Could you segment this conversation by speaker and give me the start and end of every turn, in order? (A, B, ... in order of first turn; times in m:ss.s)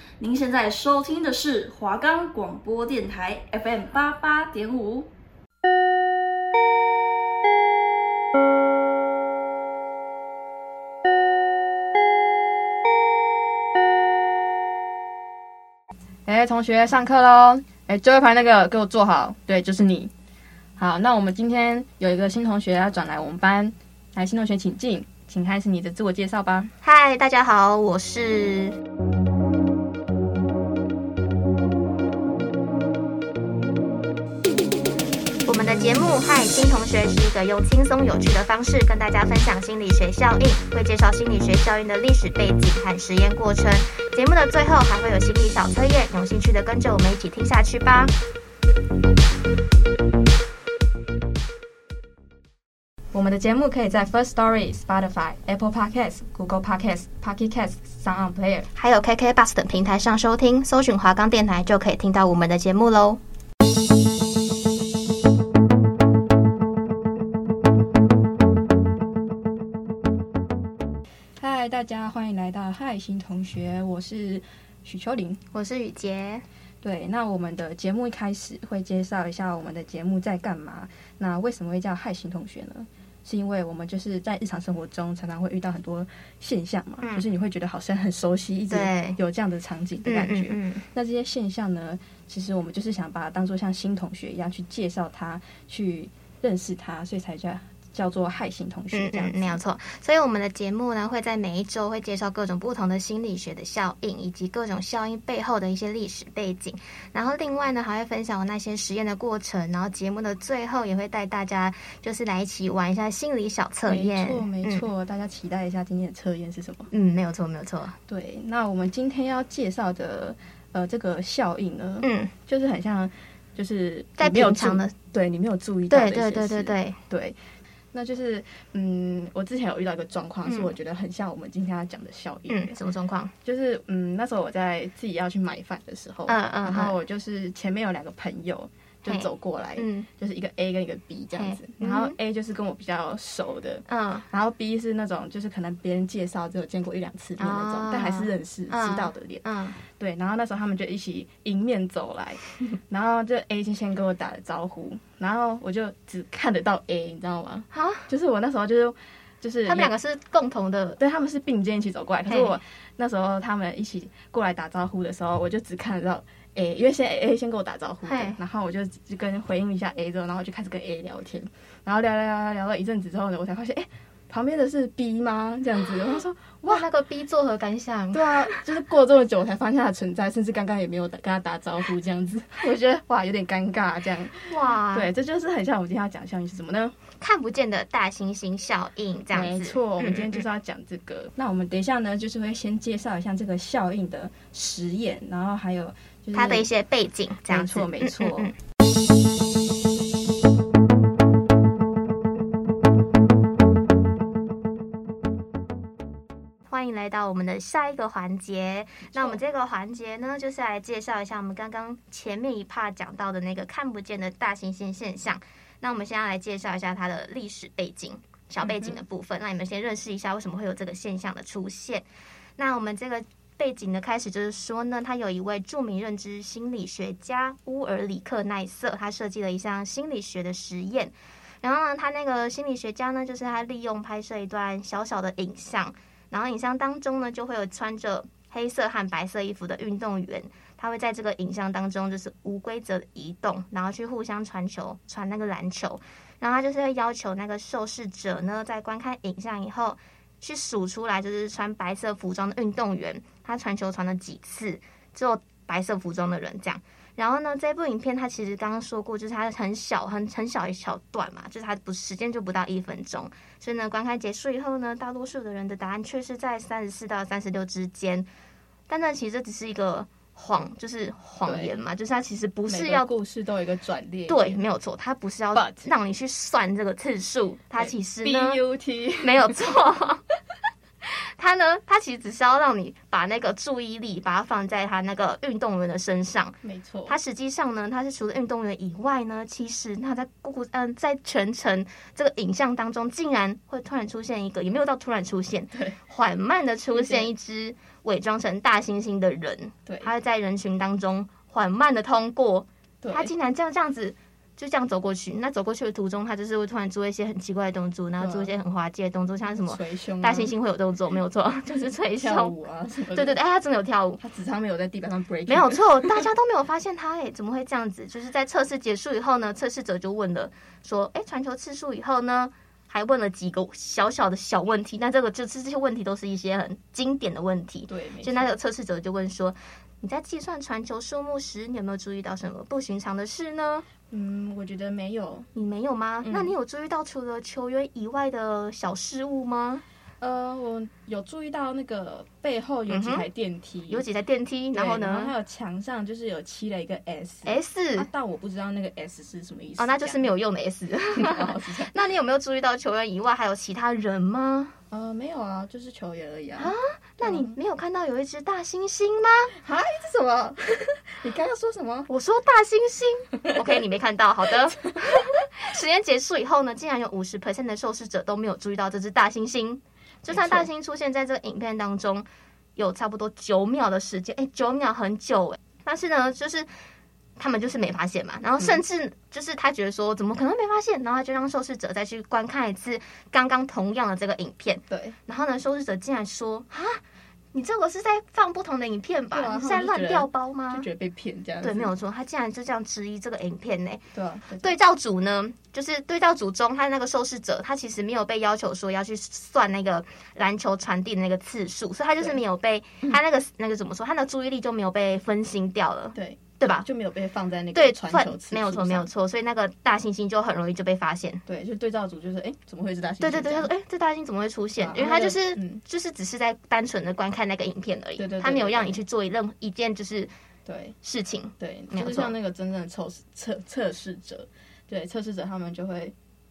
0:00.2-0:05.1 A
0:16.3-0:20.1 B
0:20.8-0:26.7 B
0:26.8-0:28.8 C
0:35.5-0:48.1 C
0:53.1-0:58.7 B
0:58.8-1:03.2 C
1:11.4-1:15.4 B
1:15.5-1:16.4 C
1:16.8-1:39.6 B
1:28.7-1:29.2 C
1:30.1-1:30.8 C
1:38.9-1:54.9 C
1:53.9-1:56.9 B
1:56.9-1:58.0 C
1:58.1-2:07.4 B
2:02.0-2:02.3 C
2:04.2-2:04.9 C
2:05.9-2:07.0 C
2:07.9-2:12.8 B
2:10.4-2:10.7 C
2:12.5-2:13.3 C
2:13.4-2:39.9 B
2:16.3-2:17.0 C
2:19.1-2:20.1 C
2:21.4-2:22.2 C
2:23.9-2:24.3 C
2:27.4-2:29.8 C
2:37.7-2:38.1 C
2:39.7-2:41.0 C
2:41.0-2:56.9 B
2:42.3-2:42.6 C
2:48.1-2:48.4 C
2:56.7-2:58.7 C
2:58.1-3:07.0 B
3:04.5-3:05.1 C
3:07.2-3:10.4 C
3:09.3-3:16.7 B
3:16.3-3:18.6 C
3:17.5-3:18.5 B
3:26.7-3:42.1 C
3:29.1-3:29.4 B
3:38.6-3:39.0 B
3:42.6-4:28.3 C
4:28.9-4:33.1 C
4:31.4-4:31.8 B
4:32.7-4:34.6 B
4:34.3-4:38.6 C
4:35.5-4:35.9 B
4:37.8-4:39.8 B
4:39.2-4:40.2 C
4:41.0-4:46.6 C
4:46.6-4:47.2 B
4:47.1-5:12.5 C
4:55.7-4:56.0 B
4:56.9-4:57.3 B
4:59.9-5:00.1 B
5:03.0-5:03.3 B
5:08.2-5:08.5 B
5:09.5-5:10.6 B
5:11.8-5:13.4 B
5:13.1-5:14.2 C
5:14.2-5:16.2 B
5:15.5-5:33.9 C
5:27.9-5:28.6 B
5:34.1-5:35.5 B
5:35.6-5:39.8 C
5:36.2-5:36.5 B
5:40.2-5:44.0 B
5:42.9-5:43.3 C
5:43.9-5:45.3 C
5:44.7-5:50.3 B
5:47.5-5:48.1 C
5:49.8-5:54.8 C
5:51.1-5:52.0 B
5:54.9-5:57.6 B
5:56.6-5:59.6 C
5:59.6-6:02.1 B
6:02.1-6:16.7 C
6:10.3-6:10.7 B
6:17.4-6:27.0 C
6:24.9-6:25.2 B
6:27.5-6:30.9 C
6:29.3-6:31.9 B
6:31.6-6:34.0 C
6:34.1-6:34.8 B
6:34.6-6:46.9 C
6:46.2-6:49.1 B
6:47.7-6:51.4 C
6:51.5-6:53.7 B
6:53.2-7:00.3 C
6:54.8-6:55.8 B
6:58.2-6:59.0 B
7:00.7-7:01.0 B
7:01.0-7:02.3 C
7:01.6-7:06.2 B